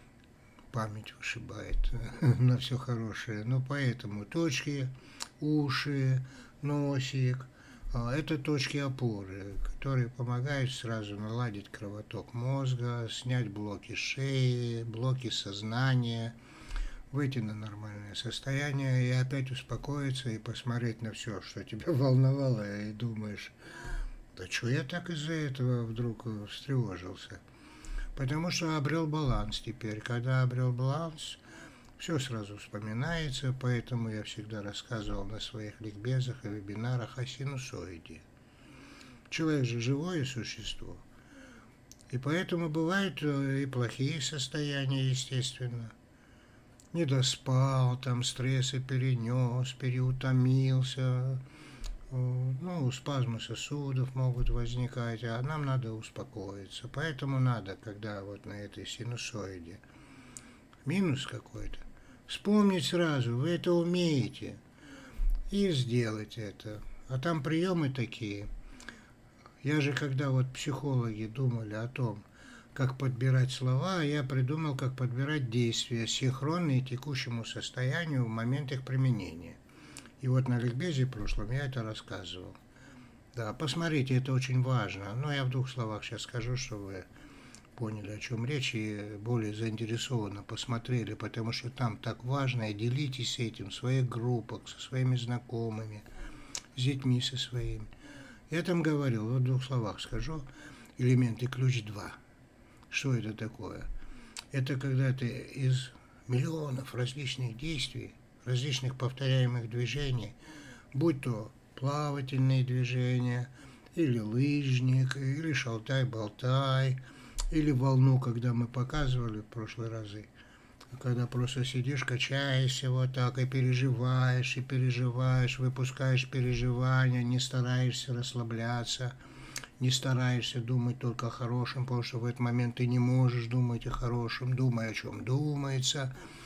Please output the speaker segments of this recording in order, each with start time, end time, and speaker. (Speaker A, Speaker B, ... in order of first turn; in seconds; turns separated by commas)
Speaker A: 0.7-16.4, Speaker A: 17.1-23.5, Speaker A: 24.3-27.4, Speaker A: 28.1-31.4, Speaker A: 32.0-38.2, Speaker A: 39.3-41.0, Speaker A: 42.1-45.9, Speaker A: 46.9-51.4, Speaker A: 52.1-59.8, Speaker A: 60.8-64.6, Speaker A: 65.5-68.5, Speaker A: 69.6-79.6, Speaker A: 80.2-82.6, Speaker A: 83.3-87.1, Speaker A: 87.8-96.1, Speaker A: 96.8-97.9, Speaker A: 98.5-102.2, Speaker A: 102.9-103.9, Speaker A: 104.5-110.4, Speaker A: 110.9-120.3, Speaker A: 120.9-129.2, Speaker A: 129.8-136.1